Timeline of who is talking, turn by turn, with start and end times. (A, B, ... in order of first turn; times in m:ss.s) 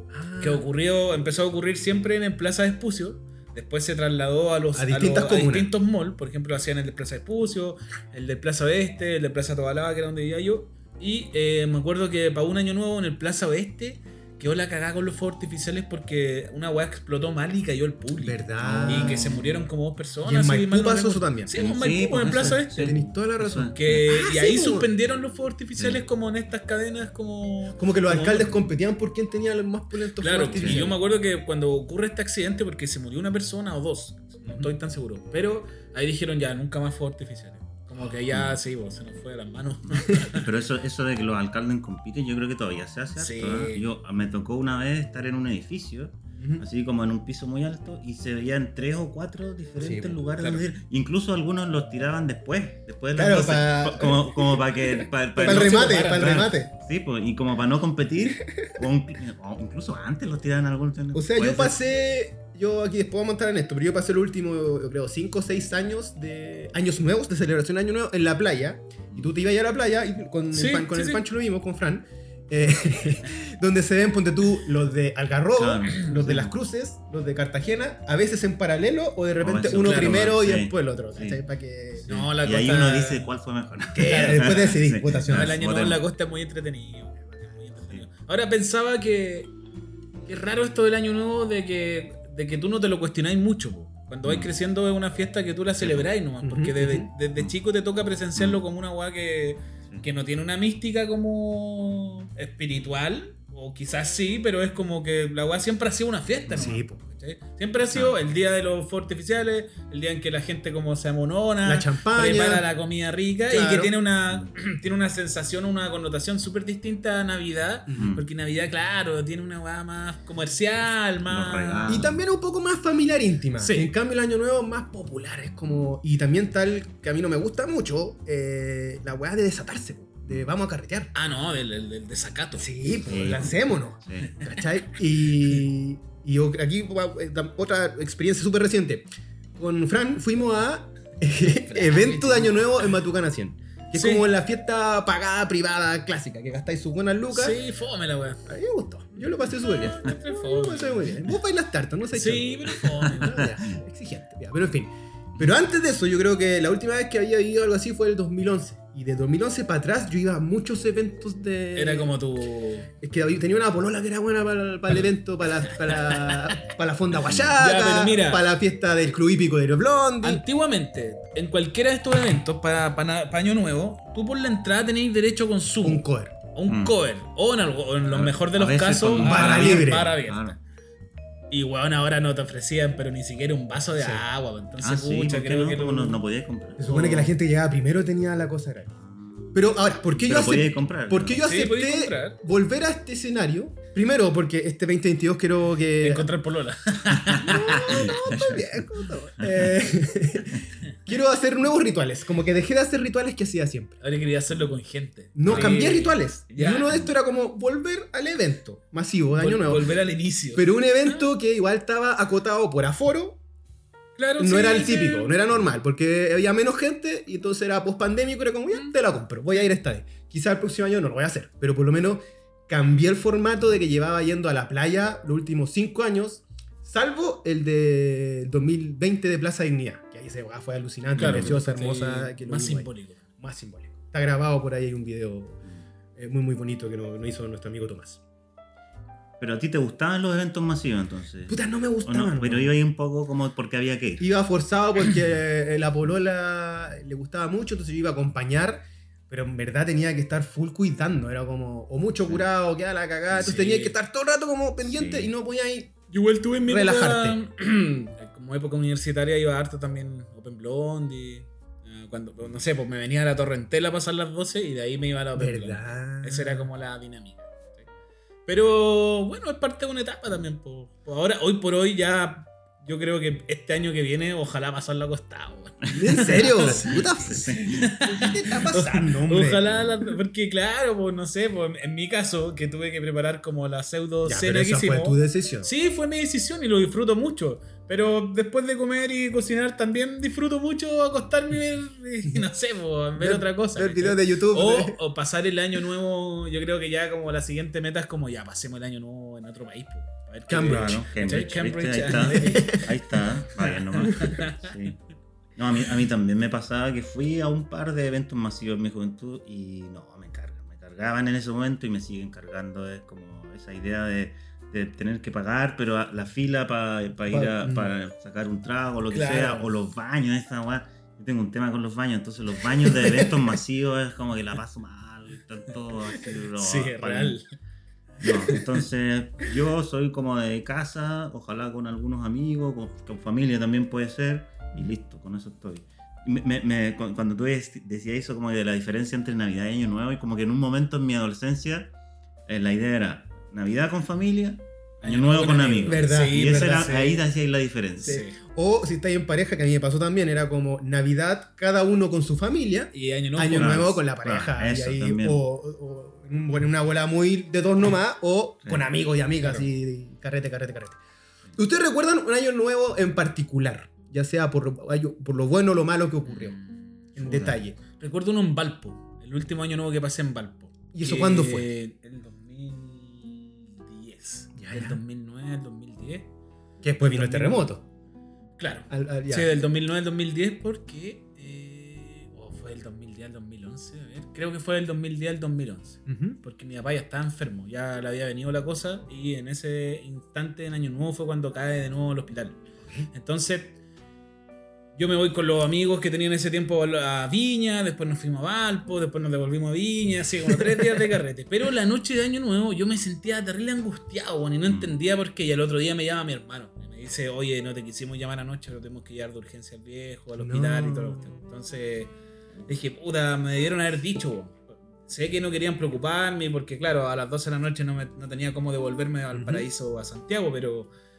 0:00.1-0:00.6 A
0:00.4-0:23.0 B
0:04.7-0:05.7 A
0:18.2-0:19.3 A
0:18.6-0:19.7 C
0:20.2-0:21.5 A
0:21.6-0:23.8 C
0:22.3-0:24.9 A
0:23.7-0:28.6 B
0:25.8-0:26.0 C
0:27.8-0:31.0 A
0:30.2-0:40.5 B
0:30.6-0:30.9 C
0:38.3-0:38.6 C
0:40.3-1:01.8 C
0:43.2-0:43.8 B
0:46.4-0:46.6 A
0:49.8-0:50.2 A
0:50.4-0:50.6 B
0:53.2-0:54.7 A
0:55.4-0:56.4 B
0:55.4-0:56.7 A
1:01.1-1:22.1 A
1:10.5-1:11.2 B
1:15.5-1:16.6 C
1:19.4-1:21.4 C
1:19.7-1:20.3 B
1:22.0-1:26.0 C
1:22.1-1:23.3 B
1:24.0-1:25.6 A
1:24.0-1:24.8 B
1:25.3-1:29.5 B
1:30.3-2:02.0 B
1:34.2-1:34.5 C
1:35.8-1:36.1 C
1:36.4-1:37.1 A
1:38.4-1:38.6 C
1:46.5-1:47.0 A
1:47.9-1:48.2 C
1:51.6-1:52.7 A
1:53.5-1:53.9 A
1:57.9-1:58.1 A
1:57.9-1:58.3 C
2:01.3-2:02.2 C
2:01.9-2:11.1 A
2:03.6-2:03.9 B
2:11.1-2:12.7 B
2:12.6-2:19.0 A
2:13.1-2:14.4 C
2:19.6-2:27.6 A
2:21.4-2:22.7 B
2:24.0-2:24.2 B
2:27.3-2:28.4 B
2:28.5-2:42.1 A
2:29.7-2:31.2 B
2:32.1-2:33.5 B
2:33.4-2:33.8 C
2:41.8-2:42.9 B
2:43.0-2:50.4 A
2:45.9-2:46.6 B
2:47.1-2:47.5 C
2:47.6-2:48.5 B
2:50.2-3:00.6 B
2:55.8-2:56.4 A
2:56.7-2:57.0 C
2:58.1-3:00.6 C
2:59.2-3:00.2 A
3:01.5-3:06.2 B
3:04.0-3:04.2 A
3:04.8-3:07.3 C
3:06.8-3:08.9 A
3:09.0-3:09.5 C
3:09.5-3:16.3 A
3:10.2-3:11.4 C
3:11.4-3:12.4 B
3:16.0-3:18.2 B
3:17.3-3:18.8 C
3:17.4-3:24.0 A
3:19.4-3:19.7 C
3:24.0-3:27.0 B
3:25.4-3:30.0 A
3:25.5-3:25.8 C
3:29.4-3:31.3 B
3:30.5-3:33.4 A
3:34.2-3:35.4 B
3:34.4-3:55.6 A
3:51.2-3:51.6 C
3:51.2-3:53.2 B
3:56.2-3:58.2 A
3:59.4-4:04.3 C
4:01.5-4:02.7 A
4:04.2-4:16.0 A
4:13.4-4:14.0 B
4:14.9-4:15.3 C
4:16.1-4:27.9 B
4:16.6-4:17.4 A
4:25.4-4:26.7 A
4:28.5-5:02.8 B
4:35.9-4:38.5 C
4:35.9-4:37.5 A
4:38.0-4:39.7 A
4:44.2-4:45.7 A
4:53.2-4:55.0 A
5:00.5-5:01.0 A
5:00.7-5:05.0 C
5:02.1-5:02.9 A
5:03.6-5:04.7 B
5:04.0-5:04.4 A
5:05.6-5:27.4 C
5:17.3-5:17.9 A
5:19.1-5:19.7 B
5:26.2-5:27.4 B
5:28.2-5:41.9 C
5:28.2-5:28.7 B
5:42.5-5:48.2 C
5:45.0-5:47.2 B
5:45.8-5:47.0 A
5:48.0-5:48.4 B
5:48.0-6:01.0 A
5:52.9-5:54.0 B
5:53.6-5:55.4 C
6:01.6-6:06.6 A
6:06.3-6:07.2 B
6:07.2-6:07.8 A
6:07.2-6:07.6 C
6:07.9-6:16.3 B
6:10.9-6:11.7 A
6:14.6-6:15.0 A
6:16.8-6:17.8 A
6:17.0-6:17.7 B
6:18.6-6:33.8 B
6:18.9-6:19.5 A
6:26.1-6:26.4 A
6:32.8-6:33.1 A
6:35.0-6:52.1 B
6:40.5-6:41.0 A
6:44.7-6:44.9 C
6:50.4-6:51.3 A
6:52.7-7:00.9 B
6:59.3-6:59.7 A